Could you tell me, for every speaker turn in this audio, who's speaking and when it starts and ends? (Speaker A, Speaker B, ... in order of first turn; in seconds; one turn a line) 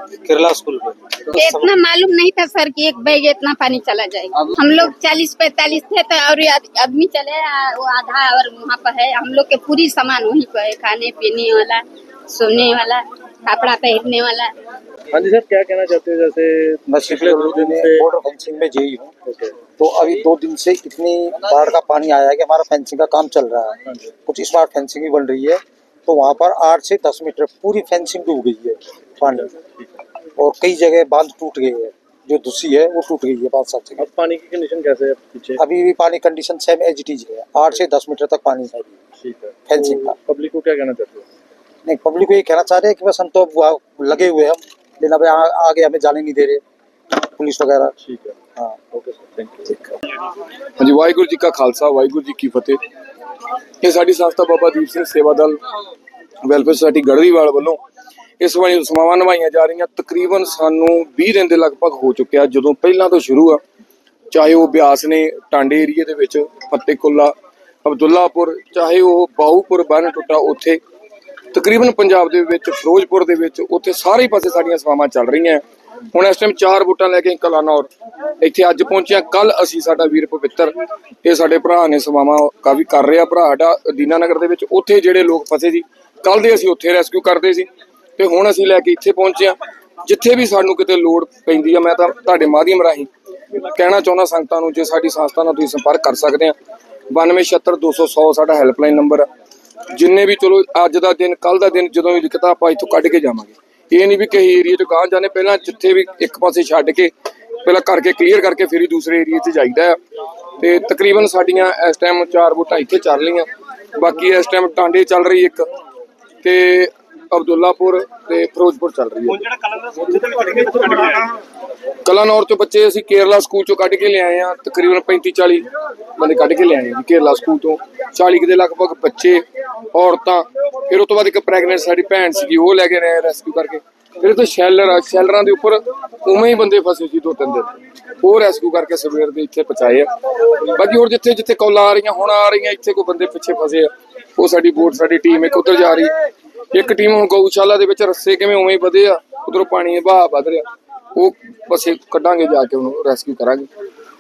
Speaker A: 0.2-1.7
Speaker B: 1.4-14.6
Speaker C: 15.1-18.1
Speaker D: 16.9-19.1
Speaker C: 19.2-19.6
Speaker D: 19.8-29.5
Speaker C: 29.3-30.0
Speaker D: 30.4-34.1
Speaker C: 34.0-35.6
Speaker D: 35.6-38.8
Speaker C: 39.0-41.3
Speaker D: 39.7-40.2
Speaker D: 41.9-46.6
Speaker D: 47.2-48.0
Speaker C: 48.0-48.4
Speaker C: 48.9-50.0
Speaker E: 50.8-52.8
Speaker E: 53.8-55.6
Speaker E: 56.4-57.8
Speaker E: 58.4-63.6
Speaker E: 64.3-67.3
Speaker E: 67.8-70.8
Speaker E: 71.5-77.9
Speaker E: 78.4-96.5
Speaker E: 97.1-99.3
Speaker E: 99.9-107.1
Speaker E: 107.6-110.0
Speaker E: 110.6-115.7
Speaker E: 116.4-119.4
Speaker A: 119.8-121.2
Speaker E: 122.0-140.1
Speaker E: 140.7-146.1
Speaker E: 146.7-153.7